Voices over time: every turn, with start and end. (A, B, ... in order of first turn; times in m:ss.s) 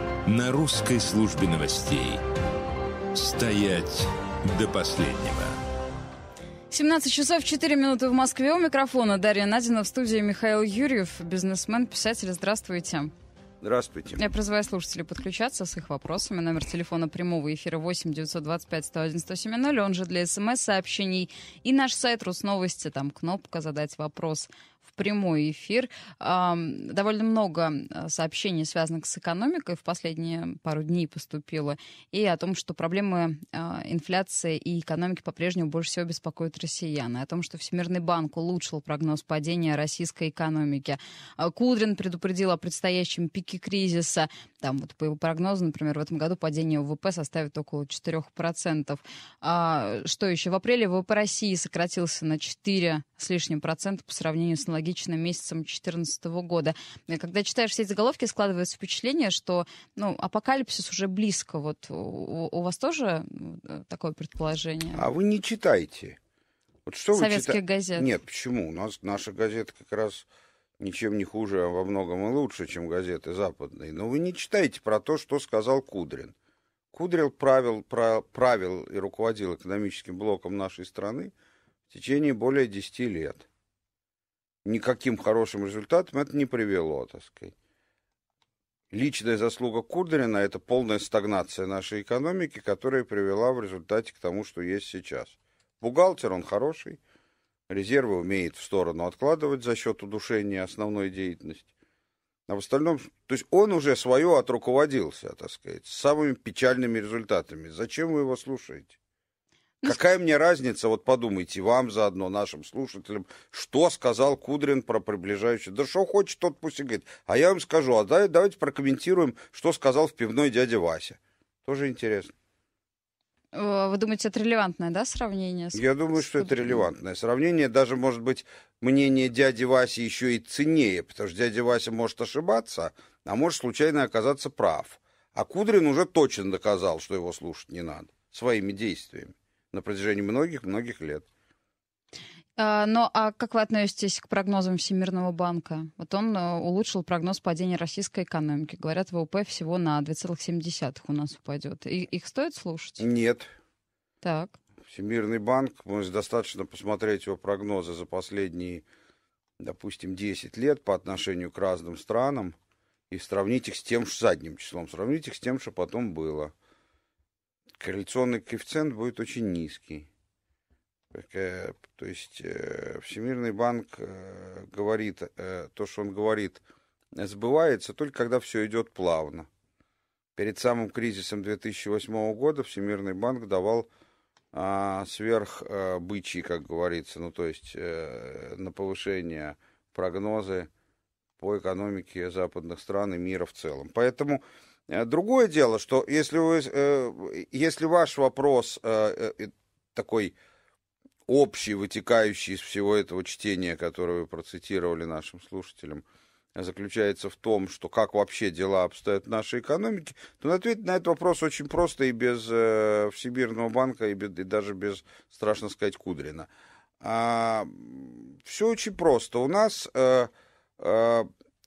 0:00.2-0:02.2 A
0:03.1-0:05.6 A
0:06.7-0:13.1 B
0:13.6-0:14.2 C
0:14.2-1:05.0 B
1:04.9-1:06.2 C
1:06.9-1:10.2 C
1:07.1-1:08.1 B
1:10.8-1:16.3 C
1:16.9-1:21.3 C
1:21.9-1:23.5 C
1:24.6-1:27.5 C
1:28.9-1:37.0 C
1:37.7-1:41.7 C
1:42.5-1:48.9 C
1:49.8-2:02.3 C
2:03.5-2:06.8 B
2:05.7-2:21.2 C
2:22.6-2:33.0 B
2:33.0-2:33.5 C
2:34.2-2:34.6 B
2:34.9-2:38.8 C
2:39.6-2:42.6 C
2:43.1-2:46.5 C
2:47.8-2:50.1 C
2:51.1-2:56.6 C
2:57.2-2:59.5 C
3:00.4-3:03.9 C
3:04.5-3:10.7 C
3:11.4-3:20.4 C
3:21.3-3:36.5 C
3:37.0-3:41.3 C